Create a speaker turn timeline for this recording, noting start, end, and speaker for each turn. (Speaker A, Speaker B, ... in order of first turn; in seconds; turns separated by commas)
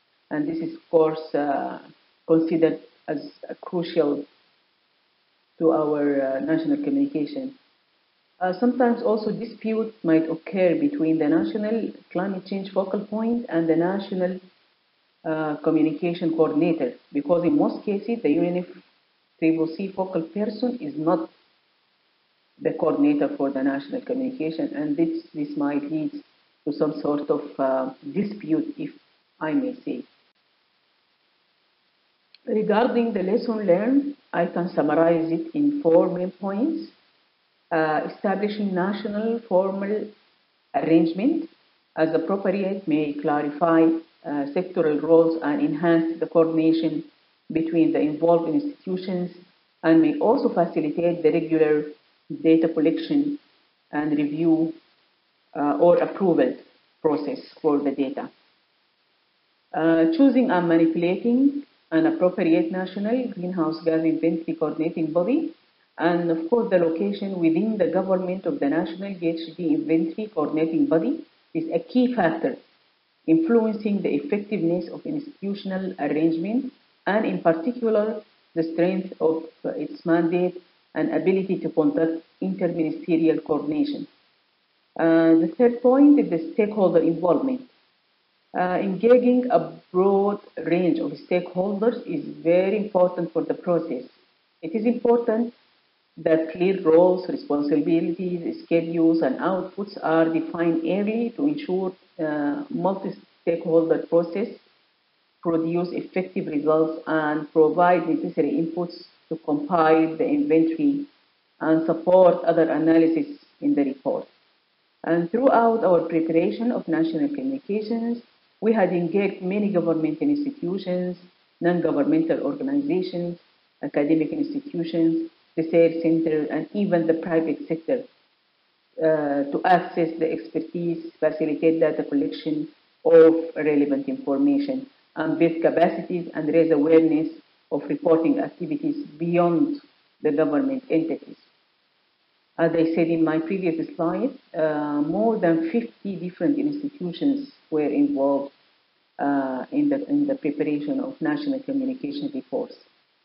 Speaker A: 0.3-4.3, Speaker A: 5.6-7.6, Speaker A: 8.4-14.4, Speaker A: 15.2-18.8, Speaker A: 19.4-21.3, Speaker A: 22.6-30.1, Speaker A: 32.5-37.0, Speaker A: 37.7-40.1, Speaker A: 40.7-53.4, Speaker A: 53.9-54.8, Speaker A: 55.5-58.3, Speaker A: 59.7-72.6, Speaker A: 73.3-84.1, Speaker A: 85.0-87.7, Speaker A: 88.5-95.5, Speaker A: 96.2-104.6, Speaker A: 105.4-111.1, Speaker A: 111.6-114.3, Speaker A: 115.0-128.1, Speaker A: 129.0-141.5, Speaker A: 142.6-148.5, Speaker A: 149.2-152.9